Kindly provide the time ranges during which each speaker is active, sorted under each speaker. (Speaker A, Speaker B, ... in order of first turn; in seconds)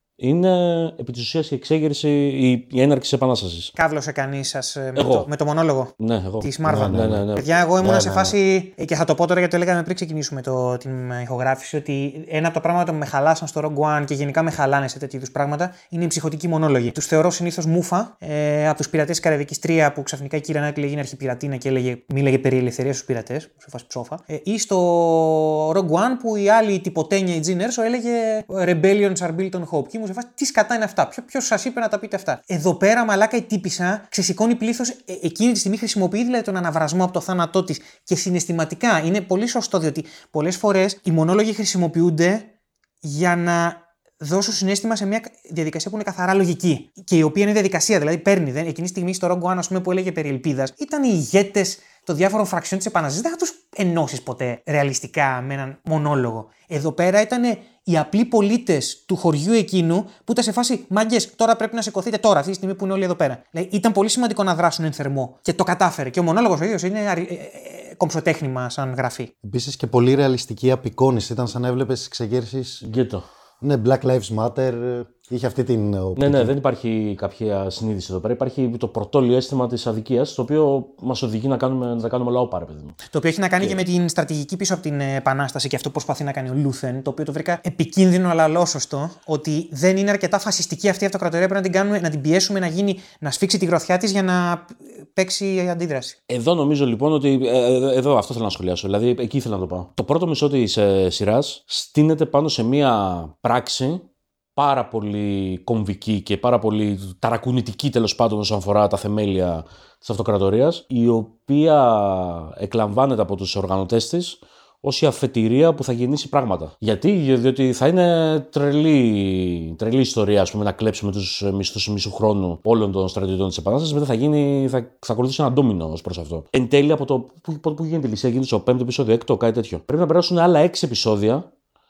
Speaker A: 0.2-3.8, 5.0-5.3, 6.0-7.5, 72.9-73.2, 76.2-83.0, 96.3-104.0, 104.6-131.5
Speaker B: 3.8-5.9, 6.4-42.5, 43.0-69.3, 83.1-96.2
Speaker C: 6.7-7.3, 7.8-8.4, 69.4-73.0, 73.6-76.5